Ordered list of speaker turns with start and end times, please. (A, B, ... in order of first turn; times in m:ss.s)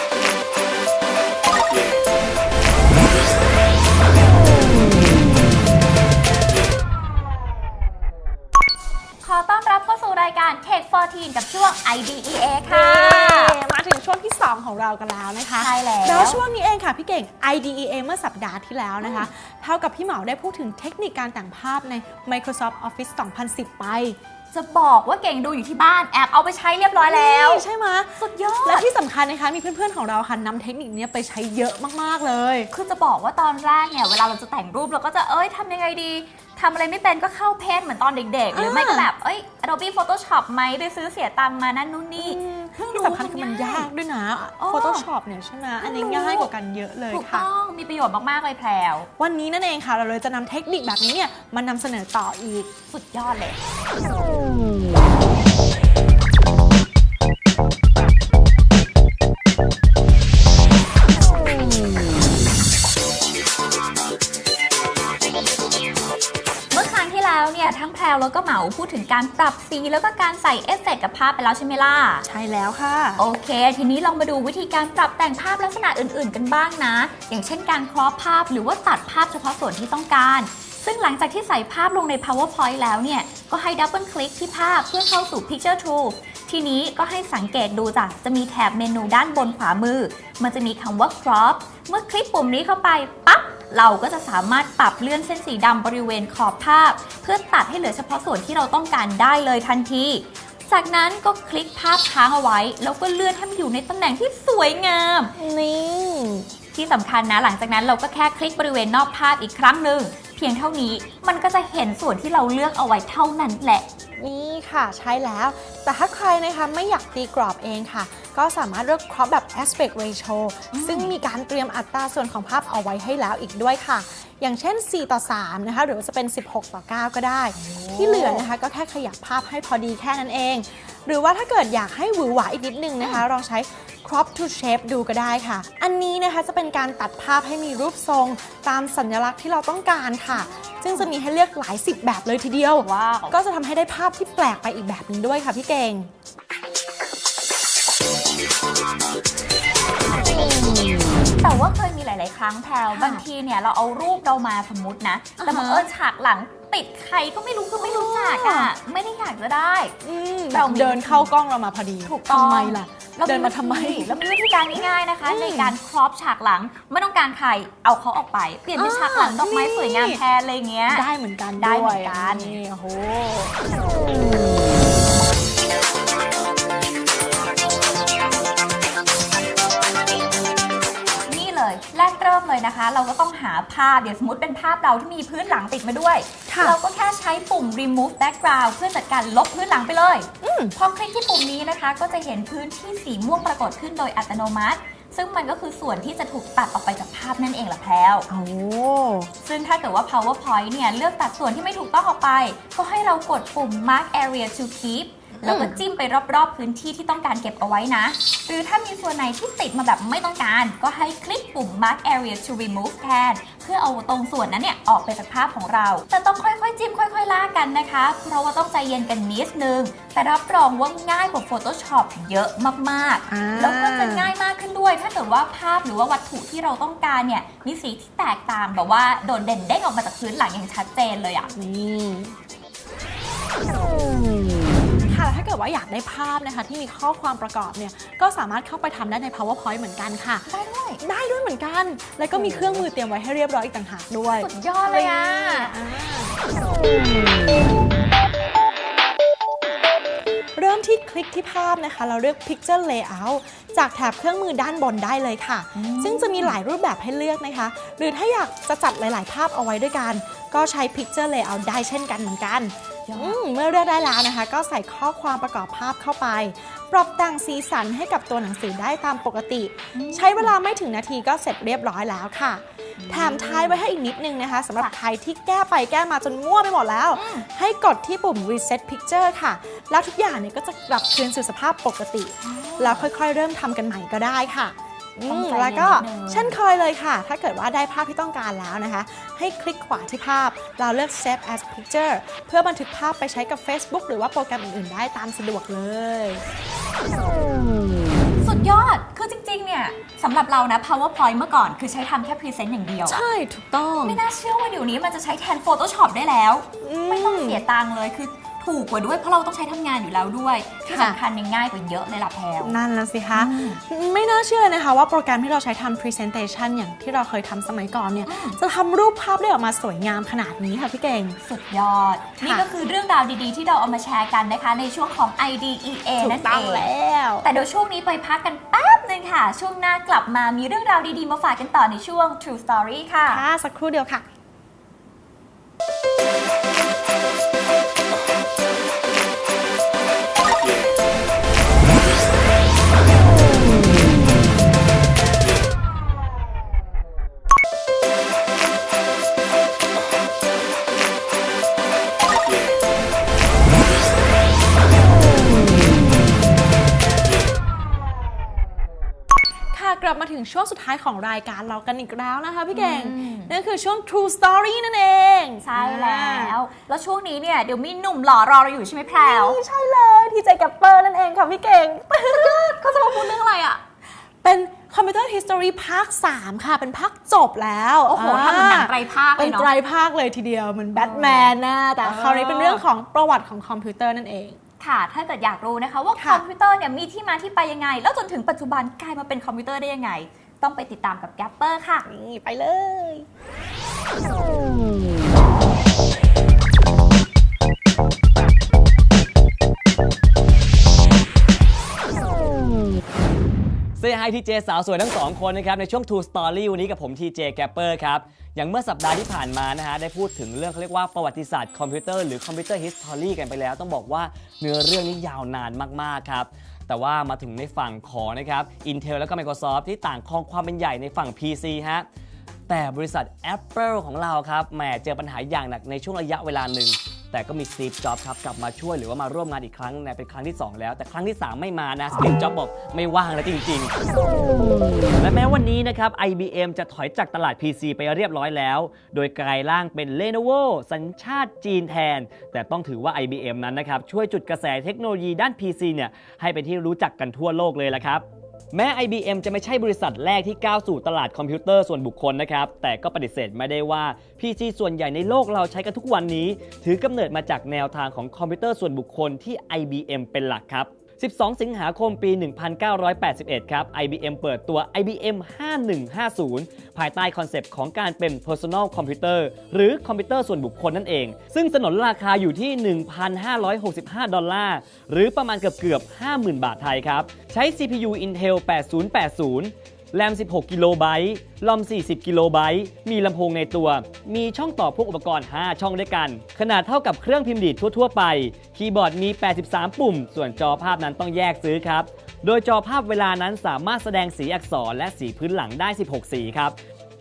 0:09.2-0:13.6 A
0:12.6-0:24.2 B
0:15.6-0:16.4 A
0:19.0-0:19.3 A
0:24.5-0:27.6 A
0:27.0-0:32.7 B
0:28.2-0:28.9 A
0:32.7-0:43.9 A
0:38.5-0:39.1 B
0:42.2-0:47.5 B
0:44.6-0:45.1 A
0:45.8-0:46.5 A
0:47.1-0:49.1 A
0:49.2-0:52.7 B
0:52.9-0:53.6 A
1:06.7-1:12.3 A
1:12.2-1:13.2 B
1:13.2-1:45.4 A
1:45.4-1:46.5 B
1:46.7-1:53.9 A
1:54.2-2:26.1 B
2:00.7-2:01.2 A
2:07.6-2:08.4 A
2:20.5-2:21.1 A
2:22.8-2:23.4 A
2:31.4-2:40.0 A
2:32.9-2:33.2 B
2:35.4-2:35.9 B
2:37.8-2:38.7 B
2:40.0-2:44.2 B
2:40.5-2:41.3 A
2:42.0-2:51.1 A
2:44.8-2:45.8 B
2:48.7-2:50.2 B
2:50.9-2:53.6 B
2:51.6-2:52.6 A
3:01.3-3:18.3 A
3:06.5-3:06.8 B
3:10.4-3:10.8 B
3:18.3-3:19.3 B
3:19.4-3:51.5 A
3:25.4-3:25.8 B
3:43.3-3:44.3 B
3:51.5-3:52.4 B
3:55.0-4:00.5 B
4:00.5-4:01.0 A
4:01.0-4:06.4 B
4:02.3-4:02.8 A
4:04.4-4:05.7 A
4:10.6-4:56.5 B
4:15.8-4:16.6 A
4:23.1-4:23.4 A
4:29.9-4:30.5 A
4:33.0-4:33.8 A
4:37.1-4:37.5 A
4:42.4-4:43.1 A
4:45.3-4:46.6 A
4:58.4-5:03.2 A
5:03.0-5:04.2 B
5:04.0-5:12.8 A
5:06.8-5:07.6 B
5:10.9-5:11.2 B
5:12.6-5:21.4 B
5:13.3-5:13.8 A
5:18.3-5:18.6 A
5:21.4-5:26.9 A
5:22.4-5:22.7 B
5:26.2-5:27.5 B
5:27.4-5:33.4 A
5:33.3-5:34.2 B
5:59.7-6:06.6 B
6:02.7-6:03.5 A
6:05.6-6:09.6 A
6:09.1-6:13.4 B
6:12.2-6:13.8 A
6:14.4-6:24.6 B
6:18.1-6:19.7 A
6:21.0-6:22.8 A
6:24.8-6:32.1 A
6:26.2-6:26.4 B
6:32.1-6:33.3 B
6:44.0-7:02.1 C
7:02.7-7:13.9 C
7:15.2-8:16.8 C